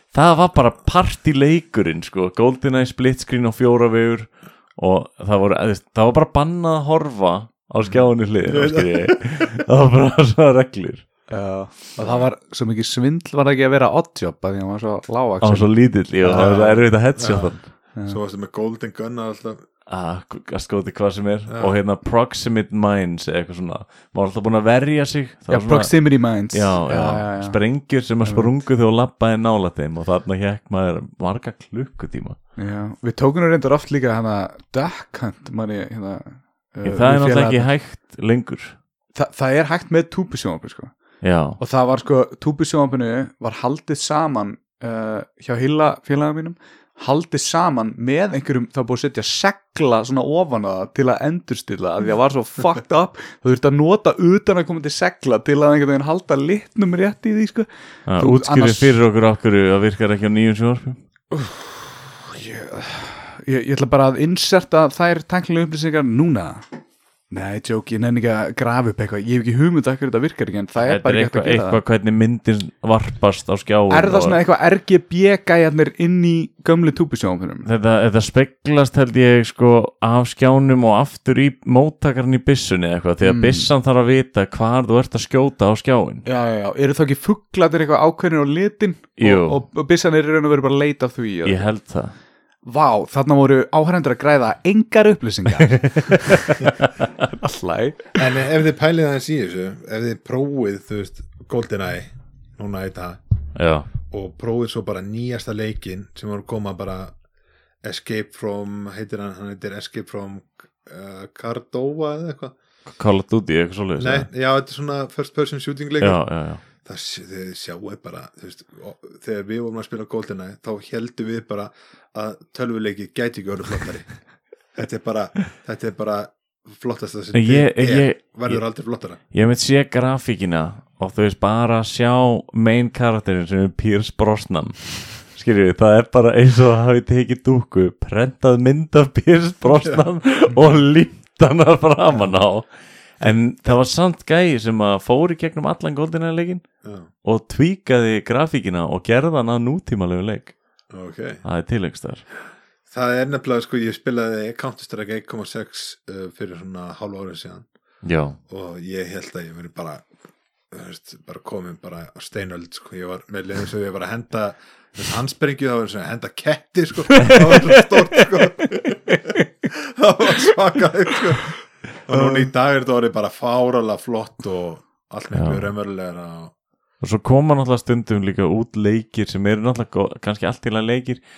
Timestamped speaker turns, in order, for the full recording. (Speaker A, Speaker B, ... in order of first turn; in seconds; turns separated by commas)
Speaker A: 0.1-11.1, Speaker B: 7.8-9.5, Speaker C: 11.3-15.7, Speaker B: 12.0-12.3, Speaker A: 15.4-17.7, Speaker B: 16.2-19.6, Speaker A: 19.9-32.4, Speaker B: 21.5-21.8, Speaker C: 25.5-27.6, Speaker C: 28.2-28.5, Speaker C: 32.6-37.7, Speaker A: 36.9-38.8, Speaker C: 39.2-41.0, Speaker A: 41.2-41.6, Speaker C: 41.6-59.0, Speaker A: 58.1-61.0, Speaker C: 61.3-66.7, Speaker C: 67.3-71.8, Speaker A: 70.8-74.4, Speaker C: 73.9-77.7, Speaker A: 77.6-86.3, Speaker C: 83.2-83.7, Speaker C: 86.2-91.7, Speaker A: 89.2-89.6, Speaker A: 91.5-92.2, Speaker C: 92.6-98.2, Speaker A: 95.7-96.7, Speaker B: 98.2-103.2, Speaker A: 103.5-103.9, Speaker B: 104.1-107.2, Speaker B: 107.8-112.5, Speaker A: 112.9-114.3, Speaker B: 114.0-124.1, Speaker A: 116.0-116.6, Speaker B: 124.7-129.2, Speaker A: 127.3-146.7, Speaker B: 139.8-140.0, Speaker B: 143.2-143.8, Speaker A: 147.2-150.6, Speaker B: 150.9-151.4, Speaker A: 151.4-152.2, Speaker B: 152.9-157.7, Speaker A: 158.0-158.4, Speaker B: 158.5-160.1, Speaker B: 160.7-176.5, Speaker A: 175.3-175.7, Speaker A: 177.0-181.2